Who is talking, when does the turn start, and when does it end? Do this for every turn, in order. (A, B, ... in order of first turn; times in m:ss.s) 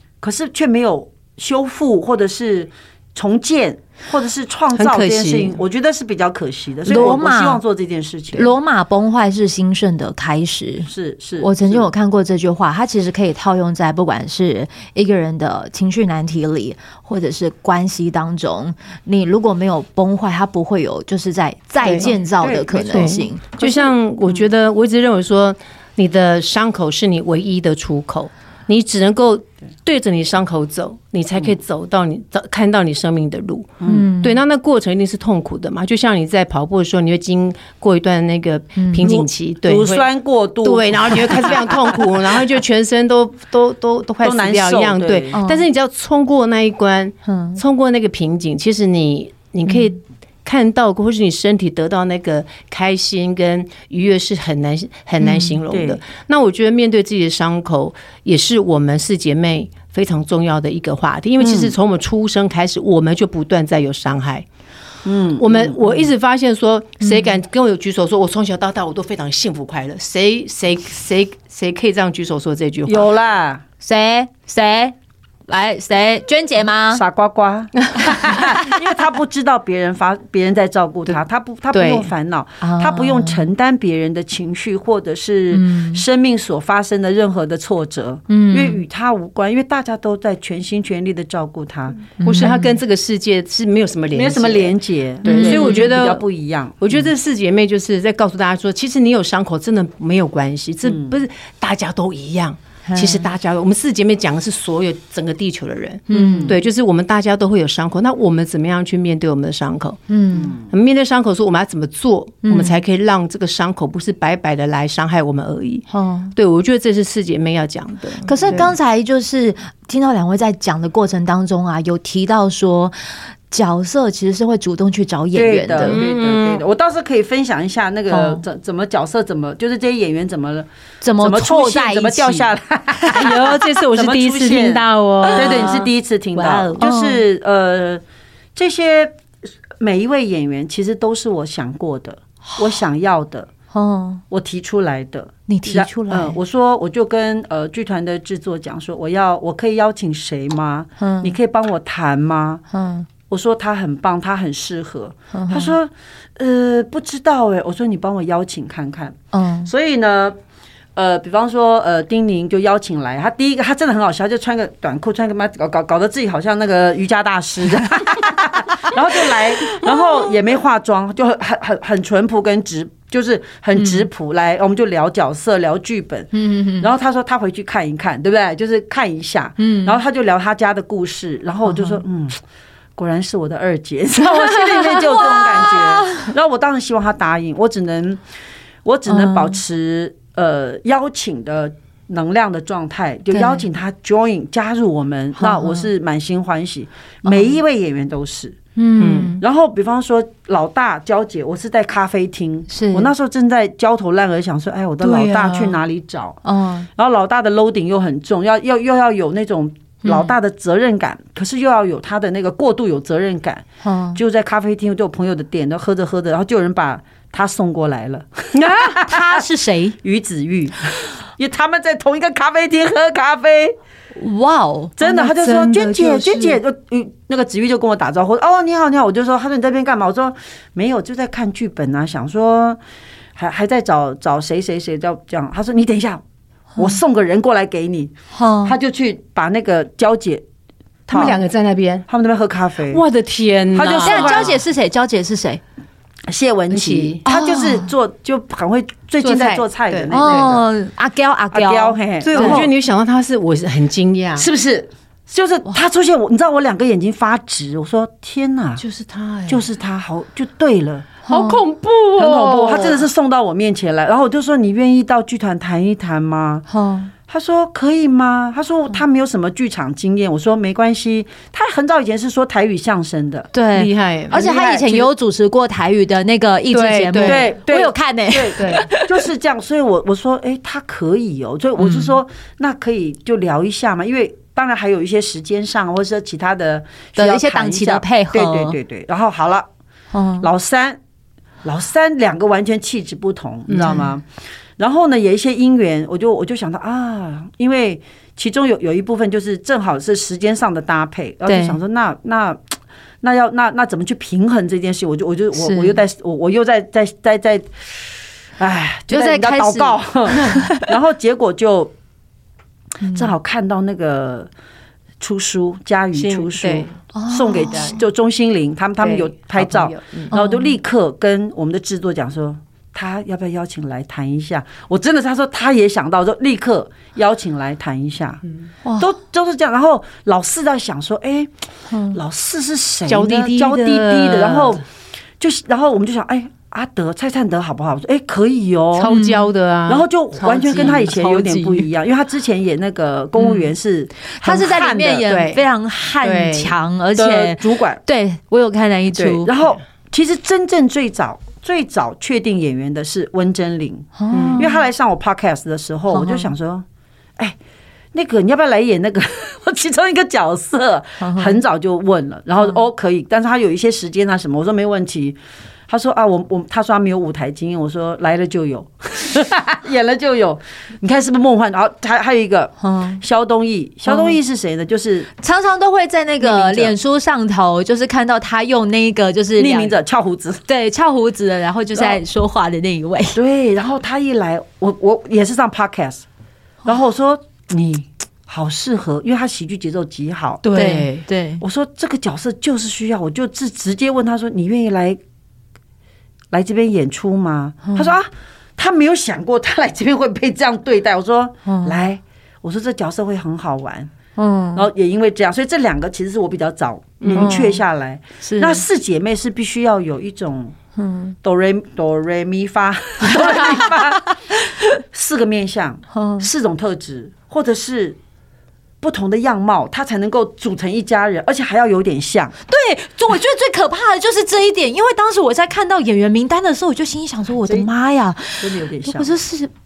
0:00.2-0:08.5 A
0:04.7-0:05.6 B
0:06.8-0:07.6 C
0:08.3-0:23.4 C
0:10.8-0:11.9 A
0:21.8-0:22.1 B
0:22.4-0:23.9 A
0:22.9-0:40.0 B
0:33.8-0:34.1 A
0:33.9-0:34.4 C
0:38.8-0:39.1 C
0:39.0-0:42.2 A
0:40.6-1:04.4 B
0:44.2-0:45.3 A
0:45.3-0:45.7 C
0:47.2-0:47.6 C
0:55.2-0:55.6 C
0:55.7-0:56.0 A
1:01.4-1:01.7 A
1:05.0-1:06.0 A
1:05.4-1:13.1 B
1:07.0-1:07.4 C
1:12.9-1:13.6 A
1:13.8-1:14.9 C
1:15.5-1:17.0 C
1:16.9-1:32.1 A
1:17.9-1:18.3 B
1:18.3-1:18.6 C
1:21.7-1:22.1 B
1:22.6-1:23.4 C
1:25.5-1:26.0 C
1:28.3-1:28.8 C
1:32.2-1:32.8 C
1:32.2-1:36.2 B
1:34.1-1:37.1 A
1:35.2-1:35.9 C
1:36.8-1:50.0 B
1:40.8-1:41.2 A
1:42.8-1:43.3 C
1:46.1-1:46.6 C
1:46.1-1:46.6 A
1:50.1-1:50.5 C
1:50.3-1:50.7 A
1:50.7-1:58.7 B
1:52.4-1:52.8 C
1:55.9-1:56.3 C
1:58.2-2:06.0 C
1:58.4-1:58.7 A
2:05.3-2:10.7 A
2:05.8-2:06.6 B
2:08.1-2:08.4 C
2:11.0-2:12.5 C
2:11.2-2:18.0 A
2:13.0-2:16.8 B
2:15.3-2:15.8 C
2:16.7-2:17.2 C
2:18.6-2:19.2 A
2:19.8-2:23.5 A
2:22.5-2:22.8 C
2:23.7-2:24.2 C
2:24.3-2:32.6 A
2:25.5-2:26.4 C
2:31.0-2:31.3 C
2:32.7-2:33.1 C
2:33.3-2:40.4 A
2:35.3-2:35.8 C
2:39.3-2:39.7 C
2:41.0-3:02.4 A
2:53.8-2:54.0 C
2:56.3-2:56.9 C
2:59.6-3:00.0 C
3:01.7-3:02.0 C
3:03.0-3:08.2 A
3:04.4-3:06.3 C
3:04.4-3:05.1 B
3:08.8-3:18.6 A
3:09.1-3:09.6 C
3:13.3-3:13.6 C
3:15.4-3:15.9 C
3:17.2-3:17.6 C
3:18.8-3:19.4 C
3:19.0-3:19.4 B
3:19.4-3:26.4 A
3:22.7-3:23.1 C
3:25.0-3:25.8 B
3:26.4-3:26.9 C
3:27.0-3:39.5 A
3:30.0-3:30.3 C
3:33.8-3:34.2 C
3:38.5-3:39.0 B
3:39.0-3:40.0 C
3:40.0-3:43.8 A
3:44.2-3:45.0 C
3:45.0-3:52.8 A
3:45.0-3:46.6 B
3:53.4-3:56.2 A
3:56.8-3:58.1 A
3:58.3-3:58.7 C
3:58.6-4:00.4 A
4:01.1-4:01.4 A
4:01.1-4:02.0 B
4:02.1-4:03.0 A
4:02.9-4:04.6 B
4:03.7-4:04.6 A
4:04.0-4:05.6 C
4:06.3-4:10.6 A
4:06.7-4:07.2 B
4:07.2-4:07.9 C
4:09.2-4:12.6 C
4:09.9-4:10.6 B
4:11.5-4:12.7 A
4:12.2-4:14.5 B
4:14.4-4:18.8 A
4:18.8-4:19.6 B
4:19.5-4:21.1 A
4:21.2-4:21.6 C
4:21.3-4:23.0 B
4:22.2-4:26.6 A
4:26.7-4:27.1 C
4:27.3-4:33.5 A
4:33.5-4:39.3 C
4:33.7-4:34.4 B
4:34.3-4:35.1 A
4:36.7-4:37.5 B
4:37.2-4:49.7 A
4:38.6-4:38.8 B
4:41.8-4:42.1 B
4:47.2-4:48.8 C
4:50.1-4:50.5 C
4:50.4-4:51.0 A
4:51.6-4:54.2 A
4:53.7-4:54.0 B
4:53.7-4:54.1 C
4:54.8-5:02.6 A
5:01.4-5:01.8 C
5:03.2-5:07.9 A
5:05.5-5:06.0 C
5:08.6-5:11.9 A
5:09.1-5:10.9 C
5:10.3-5:10.7 B
5:13.0-5:13.3 C
5:13.0-5:14.5 A
5:15.2-5:28.4 A
5:16.1-5:16.9 B
5:17.1-5:18.0 C
5:19.0-5:20.3 B
5:20.3-5:20.8 C
5:28.8-5:29.1 C
5:29.0-5:31.5 A
5:31.9-5:32.2 C
5:32.1-5:34.8 A
5:33.1-5:34.8 B
5:35.4-5:39.1 A
5:39.0-5:41.8 B
5:39.1-5:39.5 C
5:39.9-5:45.2 A
5:40.5-5:41.7 C
5:44.3-5:49.5 C
5:45.3-5:45.6 B
5:46.2-5:46.8 B
5:47.2-5:48.0 A
5:49.1-5:56.8 A
5:54.2-5:54.9 C
5:54.3-5:54.6 B
5:56.1-5:56.5 C
5:58.1-6:15.3 A
6:01.2-6:01.6 C
6:12.8-6:13.2 C
6:14.1-6:14.4 C
6:15.4-6:19.9 C
6:16.4-6:16.9 A
6:19.6-6:20.6 A
6:20.7-6:23.4 C
6:21.9-6:22.2 A
6:23.3-6:26.2 A
6:26.8-6:30.6 A
6:30.6-6:31.2 B
6:30.7-6:31.6 C
6:31.6-6:35.2 A
6:36.5-6:44.1 A
6:37.8-6:38.1 C
6:41.6-6:42.0 C
6:44.4-6:44.9 C
6:44.7-6:50.7 A
6:47.2-6:47.6 B
6:47.3-6:47.8 C
6:48.4-6:48.8 C
6:51.0-6:51.3 C
6:51.4-6:54.3 A
6:53.3-6:54.0 C
6:55.1-6:58.2 A
6:56.1-6:56.5 C
6:59.0-7:02.5 A
7:02.7-7:09.7 C
7:07.6-7:07.9 A
7:08.6-7:09.4 A